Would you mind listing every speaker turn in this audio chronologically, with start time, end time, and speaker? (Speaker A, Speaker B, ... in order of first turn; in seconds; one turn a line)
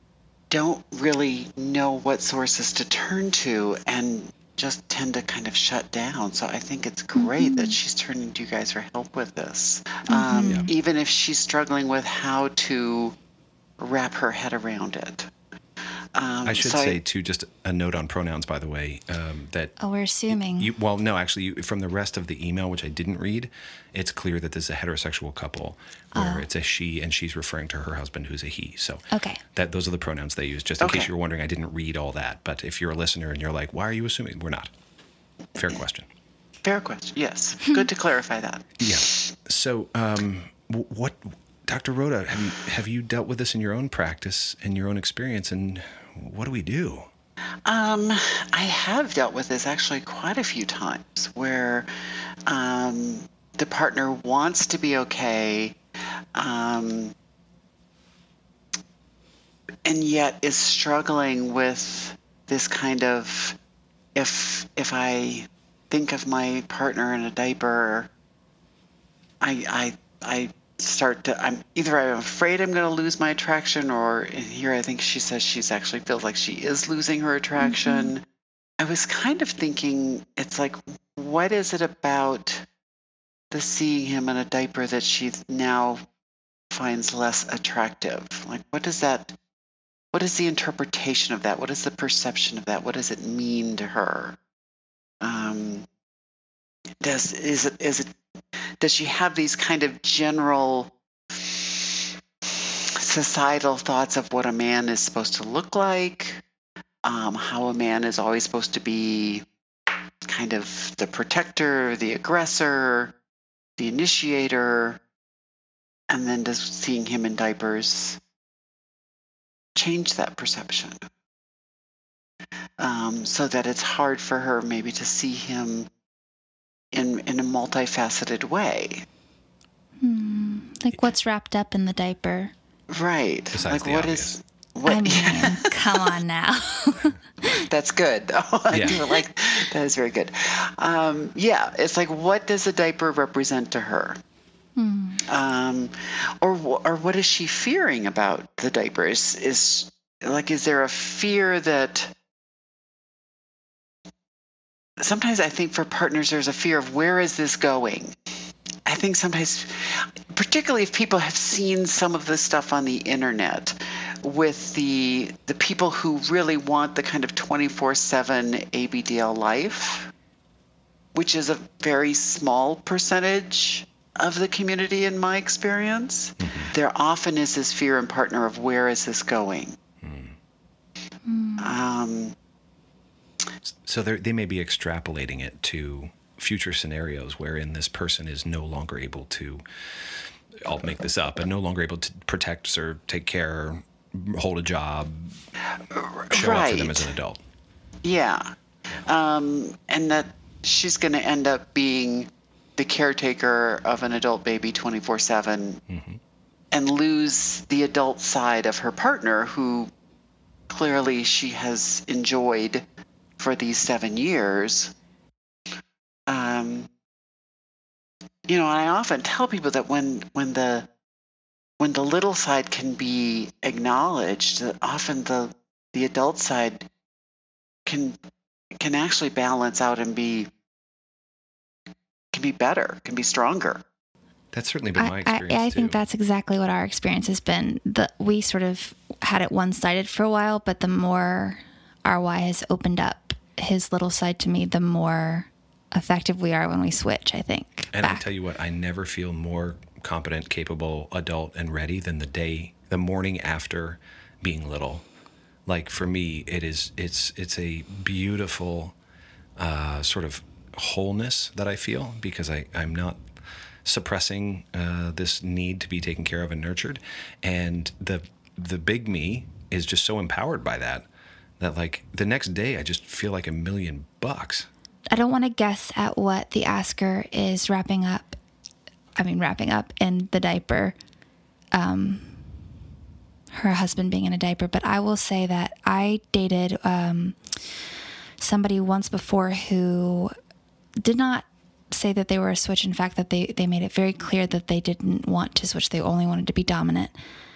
Speaker A: 0.5-13.1
Speaker B: 7.1-7.8
Speaker B: 10.1-10.7
Speaker A: 13.8-15.3
Speaker A: 16.1-17.0
Speaker C: 16.4-19.7
Speaker B: 19.8-20.7
Speaker C: 20.3-34.7
Speaker B: 26.1-26.5
Speaker B: 29.1-29.4
Speaker A: 30.8-31.1
Speaker C: 35.5-36.1
Speaker A: 36.6-39.0
Speaker C: 38.8-47.1
Speaker A: 47.6-51.9
Speaker A: 52.5-55.8
Speaker A: 56.3-57.1
Speaker A: 59.8-63.6
Speaker A: 64.1-68.1
Speaker A: 69.4-78.2
Speaker B: 77.6-78.1
Speaker A: 78.8-82.7
Speaker A: 83.5-86.0
Speaker A: 86.7-89.4
Speaker A: 90.1-94.4
Speaker A: 95.2-95.8
Speaker A: 97.0-98.2
Speaker A: 98.8-102.1
Speaker A: 102.9-106.4
Speaker A: 107.0-109.5
Speaker A: 110.3-113.2
Speaker A: 113.8-115.0
Speaker A: 116.1-118.2
Speaker A: 119.8-121.0
Speaker A: 122.8-125.9
Speaker A: 126.9-129.0
Speaker B: 130.0-132.5
Speaker A: 132.9-136.2
Speaker C: 133.5-134.4
Speaker B: 134.8-137.5
Speaker A: 137.7-144.2
Speaker C: 138.7-139.0
Speaker B: 144.8-145.2
Speaker A: 145.2-152.1
Speaker A: 155.0-158.2
Speaker A: 158.8-170.1
Speaker A: 171.1-179.7
Speaker C: 176.4-176.7
Speaker C: 180.0-180.3
Speaker B: 181.2-181.7
Speaker A: 181.6-182.3
Speaker C: 183.8-189.6
Speaker C: 190.6-195.4
Speaker A: 195.9-197.1
Speaker C: 196.3-197.4
Speaker A: 198.0-198.5
Speaker A: 199.0-205.8
Speaker C: 205.9-206.2
Speaker A: 206.7-209.9
Speaker A: 210.7-212.8
Speaker A: 213.4-214.9
Speaker A: 216.3-216.9
Speaker A: 218.5-220.9
Speaker A: 221.8-226.9
Speaker A: 227.8-228.2
Speaker A: 228.8-230.5
Speaker A: 232.3-233.8
Speaker C: 234.5-236.0
Speaker B: 234.9-248.2
Speaker C: 247.9-255.0
Speaker C: 255.7-258.9
Speaker C: 259.6-263.2
Speaker C: 263.8-271.1
Speaker C: 271.6-274.7
Speaker B: 275.1-278.4
Speaker B: 279.2-280.9
Speaker B: 281.7-282.5
Speaker B: 283.5-287.4
Speaker B: 288.4-290.3
Speaker B: 291.0-297.1